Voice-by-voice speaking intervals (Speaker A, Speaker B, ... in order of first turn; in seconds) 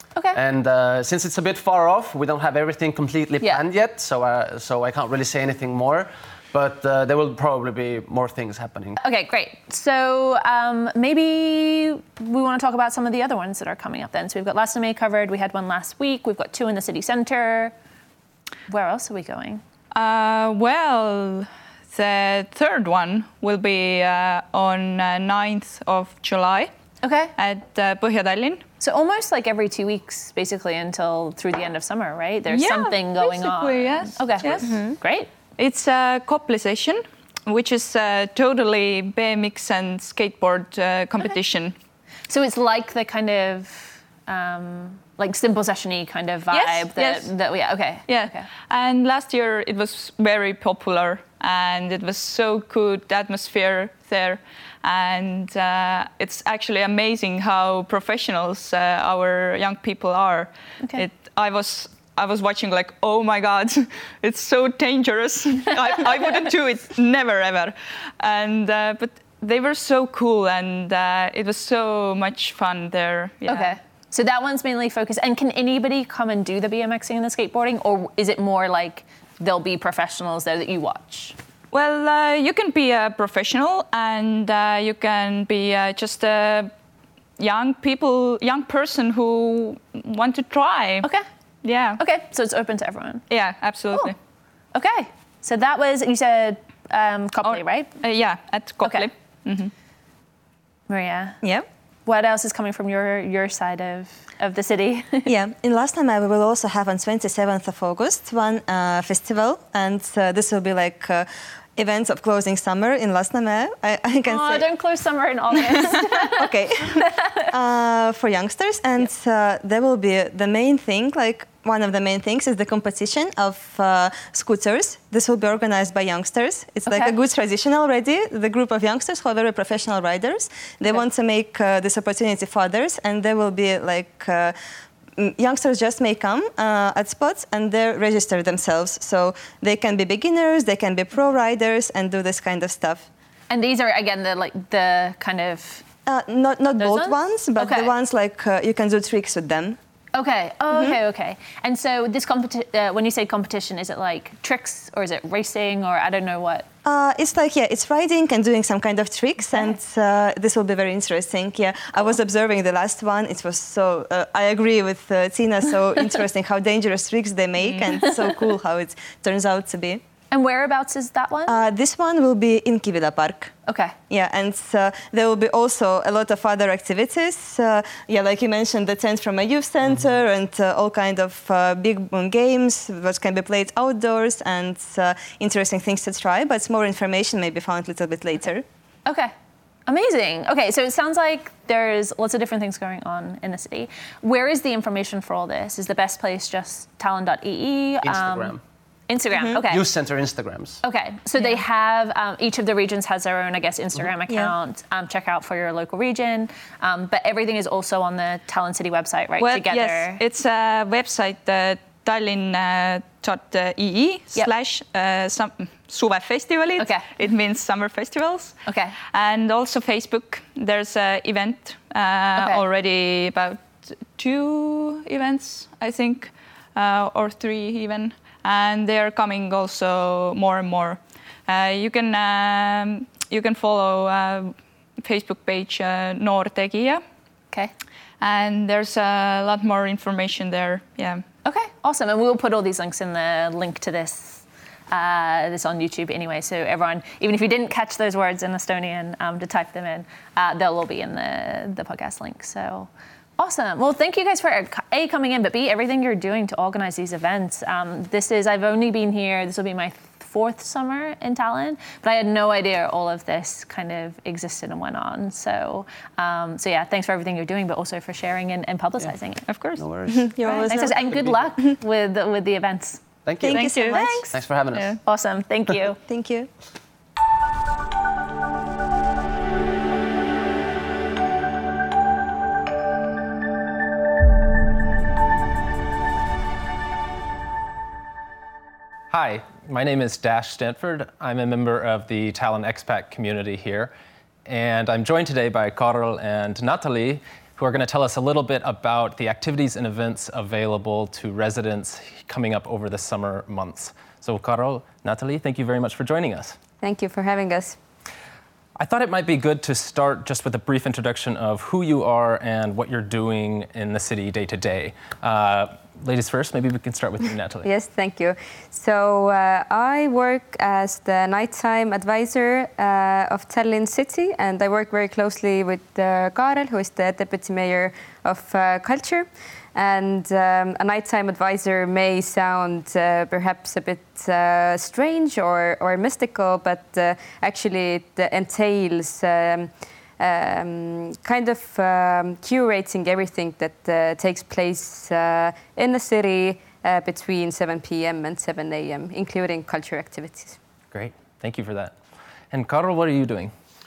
Speaker A: 0.3-9.0, 198.0-198.6, 199.7-200.8, 269.8-270.3, 271.0-271.4, 273.2-275.0
Speaker B: 9.0-17.7, 18.7-19.6, 27.0-27.3, 28.8-35.3, 42.3-48.5, 73.5-81.3, 92.0-93.3, 94.7-98.0, 98.8-99.1, 100.9-101.4, 102.0-105.3, 114.2-116.5, 126.9-127.1, 143.5-145.8, 146.8-147.9, 150.1-156.7, 170.3-171.5, 173.7-173.9, 189.1-189.3, 189.9-198.6, 199.1-199.8, 200.8-210.2, 216.8-217.1, 218.6-218.9, 222.3-222.6, 241.4-269.4, 270.4-274.4, 275.0-276.0
Speaker C: 19.9-26.7, 27.4-28.6, 32.5-34.8, 35.6-41.7, 46.5-47.3, 48.1-73.8, 81.7-86.7, 87.4-91.1, 91.6-92.0, 93.3-94.1, 97.4-99.7, 209.4-218.6, 219.1-237.0, 238.2-241.2, 269.4-269.8, 273.5-274.0, 274.7-275.0
Speaker D: 105.3-114.7, 115.8-134.5, 135.2-143.1, 146.1-149.8, 150.7-150.9, 156.8-170.0, 171.5-173.5, 174.1-188.6, 270.1-271.0, 273.4-274.2, 276.1-276.5
Speaker E: 289.1-293.9, 294.4-306.6, 308.8-317.6, 350.9-352.0, 352.5-353.5
Speaker F: 306.8-307.8, 317.6-350.6